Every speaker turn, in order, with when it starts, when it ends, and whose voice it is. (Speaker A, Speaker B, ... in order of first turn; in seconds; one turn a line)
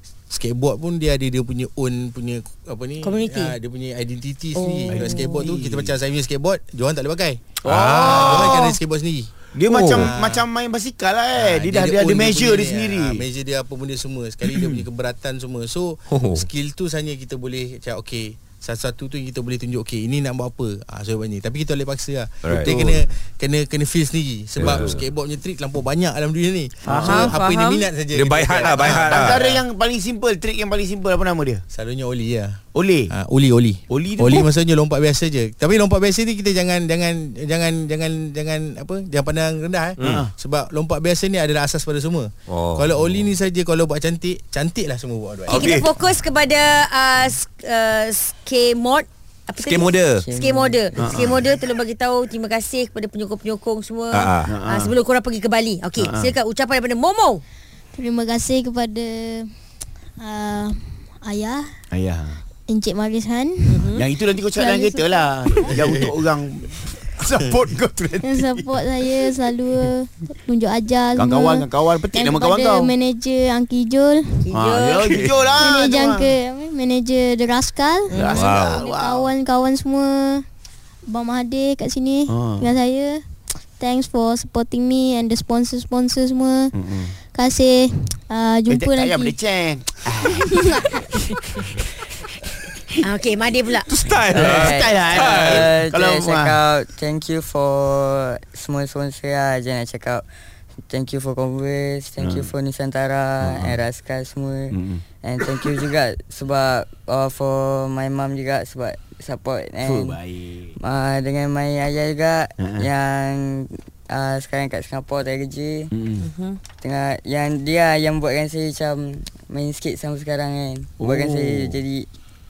Speaker A: 0.3-9.3
Speaker B: 3.0-3.5
Speaker B: 4.5-5.5
Speaker C: 4.9-6.0
Speaker C: 7.6-8.8
Speaker D: 7.7-8.5
Speaker C: 9.5-13.2
Speaker D: 9.7-10.1
Speaker A: 9.9-10.4
Speaker A: 11.3-29.6
Speaker C: 14.4-14.8
Speaker D: 16.1-16.4
Speaker D: 22.4-22.8
Speaker C: 22.6-22.9
Speaker D: 24.6-25.0
Speaker C: 26.8-27.4
Speaker B: 26.9-27.9
Speaker D: 28.1-29.4
Speaker C: 28.6-31.6
Speaker A: 31.7-45.7
Speaker C: 32.7-33.1
Speaker C: 33.9-34.5
Speaker D: 40.0-40.2
Speaker C: 40.0-40.3
Speaker D: 42.5-42.9
Speaker D: 45.5-45.9
Speaker B: 45.5-57.4
Speaker D: 49.6-50.2
Speaker E: 50.2-51.0
Speaker C: 51.0-51.4
Speaker D: 54.1-54.5
Speaker C: 54.4-54.9
Speaker C: 56.0-56.3
Speaker F: 57.9-59.5
Speaker F: 60.2-61.7
Speaker C: 61.9-62.4
Speaker F: 62.7-63.9
Speaker B: 63.7-64.0
Speaker C: 63.9-68.8
Speaker F: 64.5-65.7
Speaker F: 68.2-74.5
Speaker C: 71.2-72.9
Speaker B: 74.5-75.1
Speaker C: 74.5-76.3
Speaker F: 75.0-80.5
Speaker B: 78.1-78.5
Speaker C: 78.2-79.3
Speaker D: 78.4-78.8
Speaker F: 81.0-83.2
Speaker C: 82.3-82.7
Speaker F: 83.8-86.7
Speaker C: 86.7-87.1
Speaker F: 87.3-89.3
Speaker C: 88.7-90.6
Speaker F: 90.5-90.9
Speaker B: 93.0-93.9
Speaker D: 93.9-95.7
Speaker C: 94.3-96.5
Speaker E: 94.4-100.2
Speaker E: 100.9-110.2
Speaker C: 102.2-102.5
Speaker C: 103.4-103.8
Speaker C: 104.7-105.0
Speaker C: 109.8-110.7
Speaker E: 110.8-115.9
Speaker C: 112.6-112.8
Speaker C: 115.9-116.2
Speaker B: 116.2-116.6
Speaker E: 116.8-122.1
Speaker C: 121.0-121.8